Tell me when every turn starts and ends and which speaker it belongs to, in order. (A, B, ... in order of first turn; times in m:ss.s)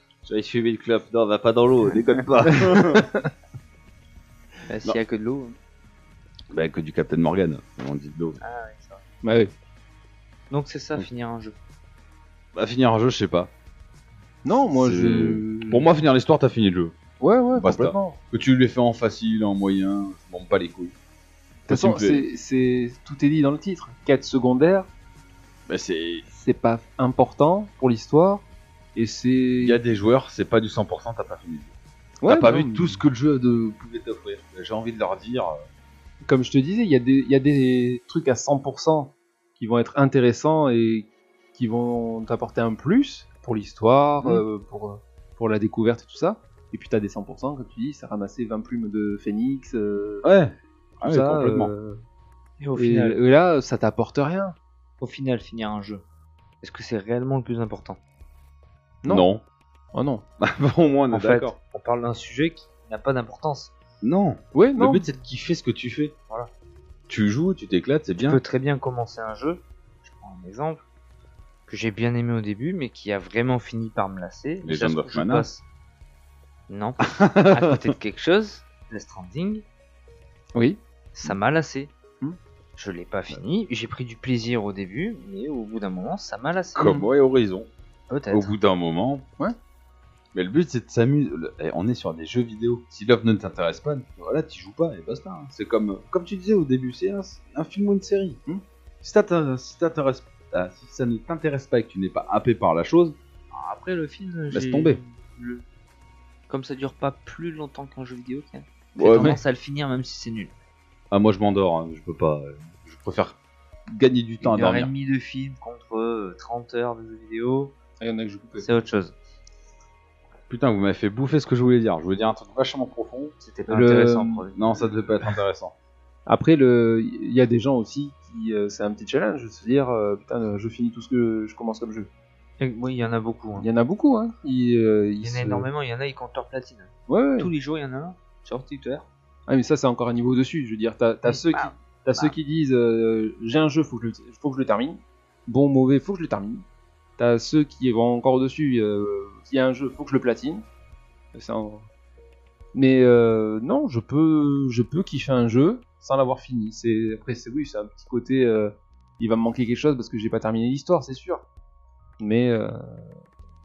0:00.2-0:03.1 A
0:02.7-0:03.1 B
0:04.7-0:05.6 C
0:06.5-0:08.4 A
0:08.4-0:09.0 C
0:09.2-0:09.5 B
0:10.5-0:11.6 C
0:12.5-0:13.5 A
0:14.4-0:15.9 B
0:14.7-0:17.0 A
0:17.2-0:18.2 B
0:17.6-0:20.9 A
0:21.7-0:22.2 A
0:21.7-0:24.9 B
0:25.7-0:26.2 A
0:26.3-0:29.8 B
0:29.6-0:31.7 A
0:32.2-0:33.0 B
0:32.2-0:35.6 A
0:36.2-0:50.2 B
0:50.2-0:51.7 A
0:51.0-0:52.0 B
0:52.6-0:53.2 C
0:52.8-0:54.5 B
0:55.0-0:56.0 C
0:56.6-0:58.0 C
0:59.0-0:59.3 B
0:59.1-0:59.4 A
0:59.9-1:00.2 B
1:00.4-1:01.6 A
1:01.1-1:03.7 C
1:04.0-1:06.1 A
1:04.5-1:05.0 B
1:07.1-1:08.4 A
1:08.2-1:10.8 C
1:11.7-1:15.6 C
1:14.6-1:15.5 A
1:16.7-1:19.6 C
1:17.0-1:17.9 A
1:21.1-1:21.9 C
1:22.8-1:27.0 C
1:26.7-1:27.7 A
1:28.1-1:28.5 C
1:28.3-1:29.2 A
1:30.3-1:38.4 A
1:39.0-1:43.2 A
1:43.5-1:45.6 C
1:44.5-1:45.0 A
1:46.5-1:50.5 C
1:49.0-1:49.4 A
1:51.1-1:53.4 A
1:53.9-1:54.9 A
1:54.4-1:57.7 C
1:58.0-1:58.7 B
1:58.6-1:59.2 C
2:00.5-2:03.3 A
2:03.4-2:04.8 C
2:03.7-2:04.4 B
2:04.5-2:05.7 A
2:06.3-2:12.1 B
2:12.6-2:13.7 C
2:13.6-2:15.7 B
2:15.2-2:19.1 C
2:17.1-2:17.5 B
2:19.5-2:26.6 B
2:21.3-2:22.3 C
2:27.2-2:30.6 B
2:31.3-2:31.9 B
2:32.7-2:41.4 B
2:42.2-2:43.2 B